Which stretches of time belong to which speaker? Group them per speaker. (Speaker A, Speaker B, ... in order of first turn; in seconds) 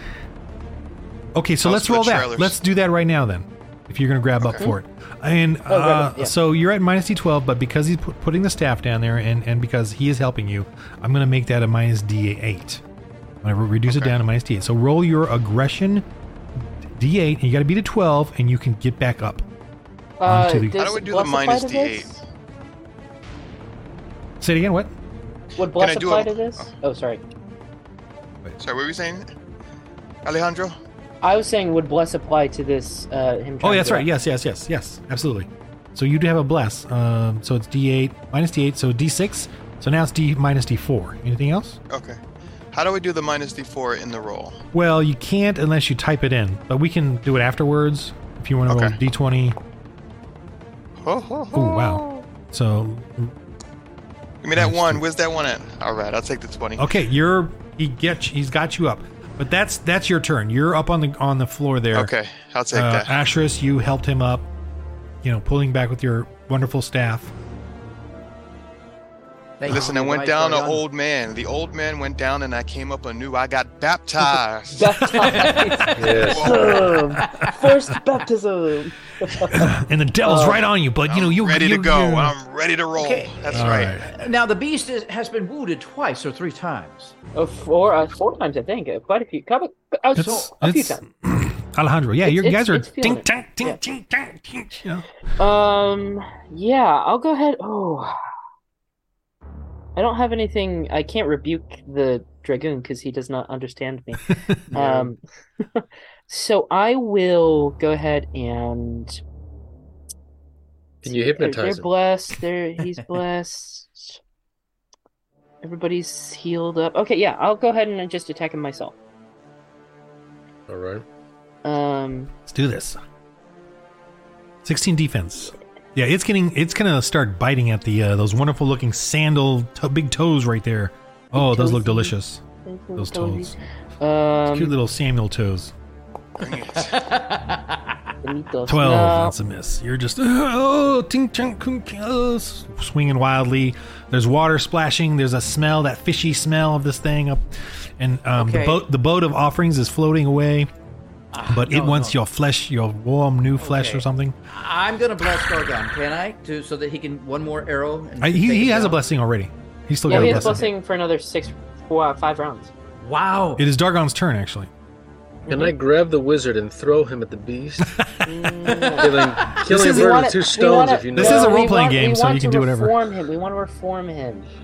Speaker A: 1.3-12.8, 13.4-19.4, 20.2-20.8, 24.4-24.9, 33.6-41.8, 44.7-49.6, 51.5-53.4, 54.6-55.0, 56.8-62.1, 62.7-64.5, 65.2-67.3, 79.5-82.4, 83.5-84.2, 90.1-95.1, 104.3-104.6, 122.5-123.0, 124.6-132.4, 132.9-133.5, 134.5-135.7, 138.6-150.7, 151.5-154.3, 158.2-160.7, 163.6-164.7, 167.9-168.3, 169.7-170.3, 171.1-173.0
Speaker B: 1.6-2.5, 4.4-4.6, 13.9-14.1, 20.7-22.1, 25.6-26.7, 28.6-29.3, 30.2-30.8, 41.9-42.2, 42.7-44.6, 48.7-49.0, 51.0-51.7, 54.4-56.9, 61.9-63.1, 69.6-75.3, 76.3-76.7, 81.1-84.0, 136.4-137.1
Speaker C: 5.7-6.3, 20.2-22.2, 25.6-27.2, 31.2-34.1, 51.7-52.2, 74.7-79.7, 80.2-80.6, 87.3-91.0, 92.2-93.8, 95.4-98.2, 100.0-109.2, 111.0-114.2, 115.6-119.0, 121.6-122.3, 131.3-132.1, 132.6-134.8, 138.2-139.4, 160.1-162.7, 165.5-165.7, 168.2-174.5
Speaker D: 69.6-70.8, 75.1-76.5, 77.1-77.5, 83.0-87.1, 90.2-90.5, 104.7-105.1, 136.7-138.1, 148.4-148.8, 151.3-152.2, 153.6-159.0, 160.1-160.7, 163.0-163.7, 168.7-169.5
Speaker E: 76.0-76.7, 111.0-111.9, 120.7-121.0, 165.5-168.1, 168.7-171.7